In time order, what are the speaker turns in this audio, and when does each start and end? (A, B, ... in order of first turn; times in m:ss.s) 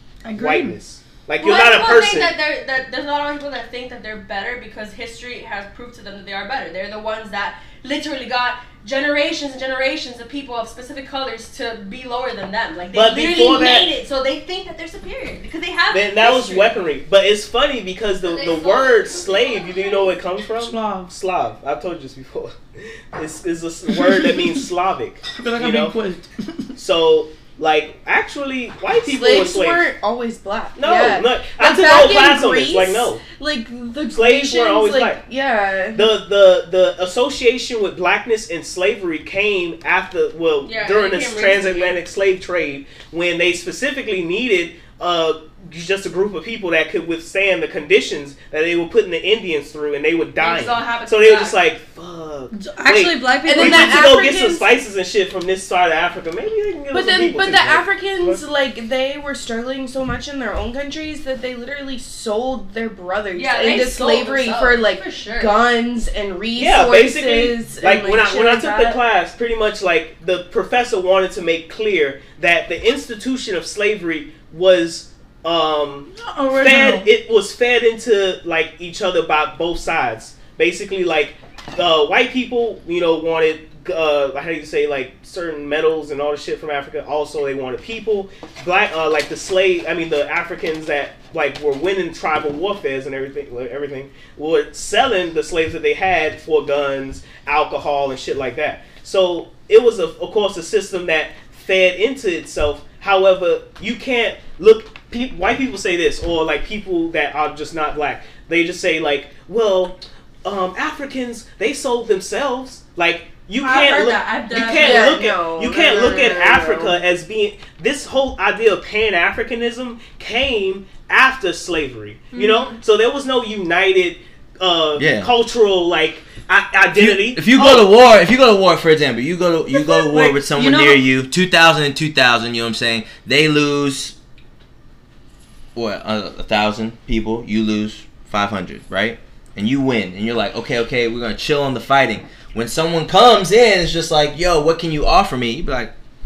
0:00.2-0:00.8 A
0:00.4-0:02.3 B
0:01.4-0:16.8 C
0:12.9-0:13.9 B
0:15.9-0:25.9 B
0:18.2-0:20.2 C
0:20.5-0:21.1 A
0:23.9-0:24.6 A
0:25.4-0:26.7 A
0:26.8-0:29.9 B
0:29.0-0:36.2 D
0:30.8-0:33.2 B
0:34.1-0:35.2 B
0:35.9-0:58.4 B
0:40.6-0:42.0 C
0:50.4-0:51.6 C
0:52.5-0:54.0 A
0:53.4-0:54.7 D
0:56.9-1:09.0 D
1:03.3-1:05.6 C
1:06.5-2:07.9 B
1:16.2-1:17.1 A
1:53.6-1:57.0 D
1:53.7-1:55.2 A
1:54.5-1:55.2 C
2:02.3-2:02.7 C
2:05.0-2:05.3 E
2:06.9-2:14.1 E
2:10.5-2:11.0 A
2:15.7-2:25.9 E